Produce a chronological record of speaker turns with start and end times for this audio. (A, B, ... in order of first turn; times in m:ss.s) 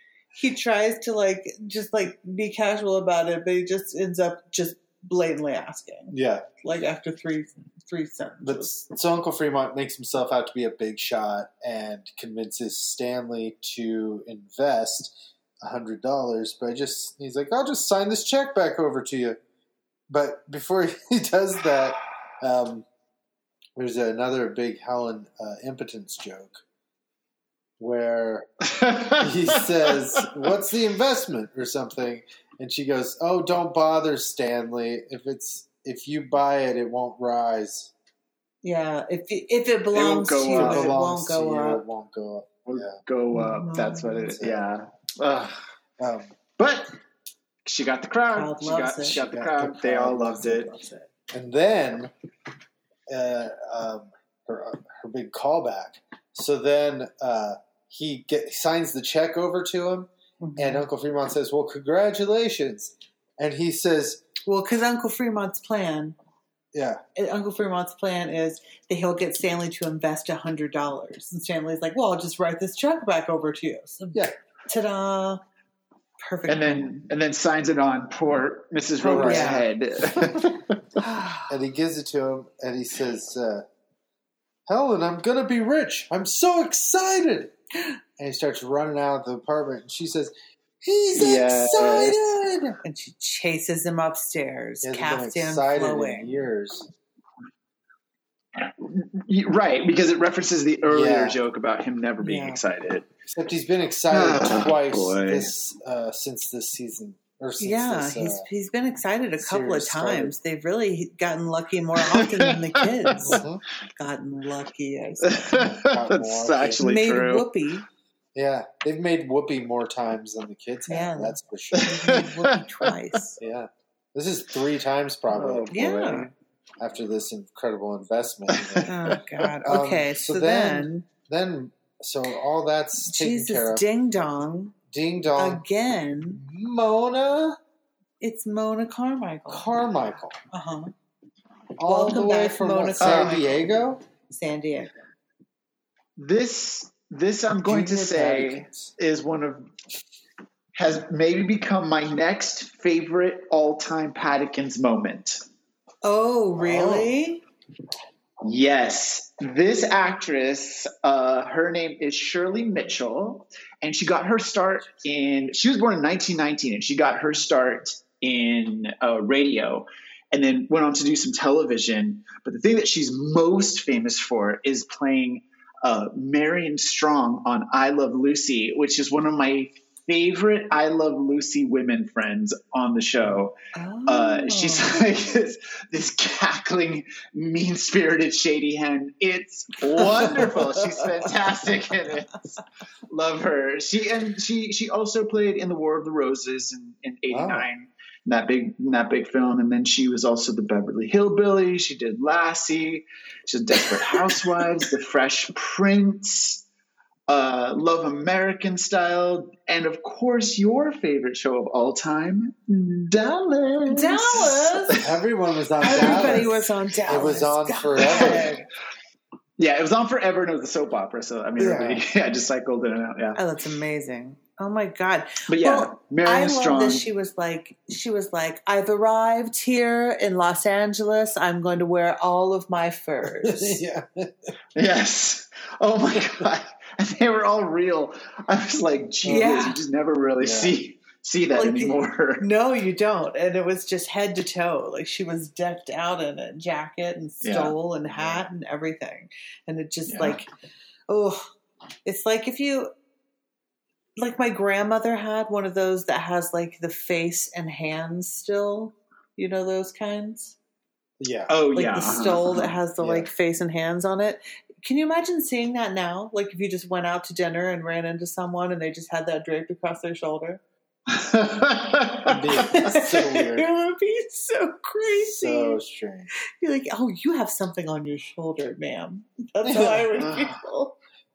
0:00.3-0:08.8 A
0:06.1-0:06.4 B
0:08.4-0:19.4 B
0:20.1-0:22.8 B
0:23.8-0:26.6 B
0:27.8-0:28.5 B
0:28.6-0:30.3 C
0:29.1-0:37.9 B
0:38.6-0:41.8 A
0:39.9-0:40.9 C
0:40.5-0:43.0 B
0:42.6-0:45.6 C
0:43.3-0:44.3 A
0:44.3-0:44.7 B
0:46.0-0:46.3 B
0:46.6-0:46.9 C
0:47.6-0:51.0 C
0:48.3-0:49.2 A
0:49.1-0:50.8 B
0:51.3-0:52.1 B
0:53.1-1:04.2 B
1:00.4-1:00.8 A
1:04.4-1:06.1 A
1:06.7-1:07.0 B
1:07.2-1:15.4 A
1:16.2-1:17.0 A
1:16.5-1:20.8 C
1:19.0-1:19.7 A
1:19.0-1:19.6 B
1:21.0-1:21.5 A
1:21.5-1:23.6 B
1:24.7-1:27.5 B
1:28.2-1:32.8 B
1:31.1-1:32.4 C
1:32.8-1:36.3 A
1:34.8-1:36.9 B
1:38.6-1:43.1 C
1:40.9-1:41.4 B
1:42.2-1:42.6 A
1:43.2-1:48.4 B
1:44.1-1:45.5 C
1:47.6-1:53.4 A
1:49.4-1:50.3 B
1:52.0-1:53.4 C
1:53.2-1:53.6 B
1:54.0-1:55.6 A
1:55.2-1:57.5 C
1:55.5-1:56.8 B
1:56.8-1:57.8 A
1:58.3-2:02.2 B
2:00.9-2:03.4 A
2:01.7-2:03.1 C
2:03.4-2:06.3 B
2:05.3-2:06.1 C
2:05.7-2:06.3 A
2:06.8-2:08.9 B
2:08.5-2:09.2 C
2:08.9-2:11.1 A
2:09.6-2:13.8 B
2:13.0-2:14.7 A
2:14.9-2:15.6 B
2:15.4-2:16.4 A
2:16.3-2:17.6 B
2:18.2-2:19.7 A
2:19.5-2:20.4 B
2:20.5-2:20.9 A
2:21.8-2:24.0 B
2:21.8-2:23.4 A
2:23.0-2:23.5 C
2:24.3-2:24.9 A
2:26.2-2:29.7 C
2:27.6-2:28.9 B
2:30.8-2:35.4 C
2:36.0-2:37.4 A
2:36.6-2:37.1 B
2:38.4-3:03.5 C
3:03.7-3:05.0 A
3:04.1-3:12.4 C
3:10.1-3:10.7 B
3:13.1-3:26.6 C
3:17.3-3:17.7 B
3:27.3-3:35.2 C
3:33.8-3:35.0 A
3:34.9-3:38.4 B
3:35.8-3:36.5 C
3:35.8-3:38.7 A
3:38.0-3:38.5 C
3:39.6-3:43.4 C
3:41.6-3:42.0 B
3:43.4-3:53.8 A
3:45.5-3:47.0 C
3:53.2-3:54.5 B
3:54.8-4:02.5 C
3:59.2-3:59.6 B
3:59.2-3:59.8 A
4:00.4-4:00.8 B
4:01.5-4:10.5 A
4:07.4-4:07.7 C
4:08.1-4:08.4 B
4:10.1-4:10.4 C
4:11.1-4:11.4 A
4:12.0-4:12.9 A
4:14.2-4:20.6 A
4:21.2-4:21.5 B
4:21.5-4:22.8 C
4:21.7-4:30.6 A
4:23.0-4:23.3 B
4:31.1-4:32.5 C
4:32.2-4:33.7 B
4:32.6-4:35.8 A
4:35.3-4:36.3 B
4:36.6-4:41.0 A
4:39.6-4:40.3 B